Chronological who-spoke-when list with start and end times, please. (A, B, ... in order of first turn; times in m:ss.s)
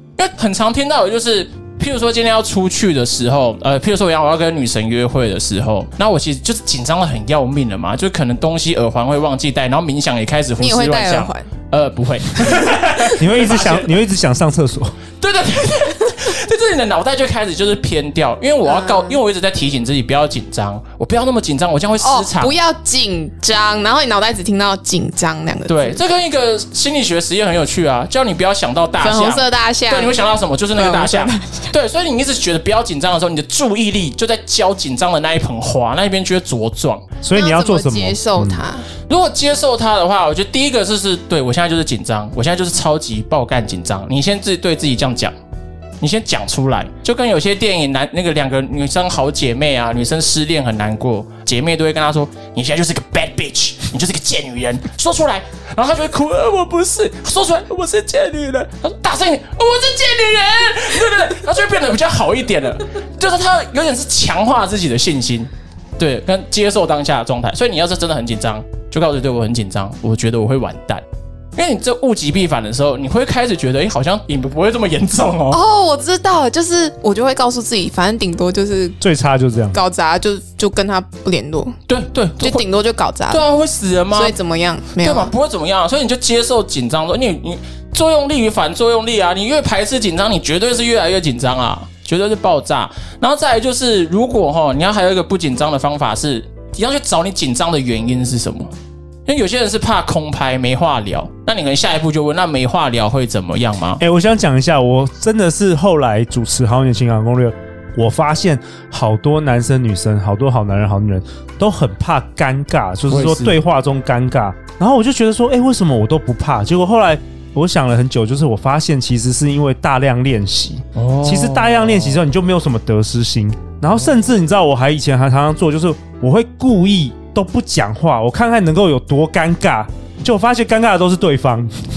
0:00.2-0:13.9 A
0:10.6-0:11.5 B
0:13.1-0:14.9 C
0:15.2-0:22.6 A
0:18.7-0:19.2 B
0:22.0-0:26.0 B
0:25.7-0:37.0 A
0:29.0-0:30.2 B
0:30.7-0:31.7 B
0:37.2-0:38.7 C
0:37.3-0:38.9 B
0:39.1-0:45.3 A
0:46.0-1:11.0 A
1:11.6-1:15.6 A
1:15.5-1:19.0 B
1:19.0-1:19.8 C
1:19.7-1:21.8 B
1:21.9-1:22.7 A
1:22.4-1:23.4 B
1:23.3-1:24.4 A
1:24.1-1:25.3 B
1:25.0-1:38.7 A
1:39.3-1:44.0 A
1:44.0-2:11.7 C
1:53.1-1:53.6 A
2:01.0-2:02.2 A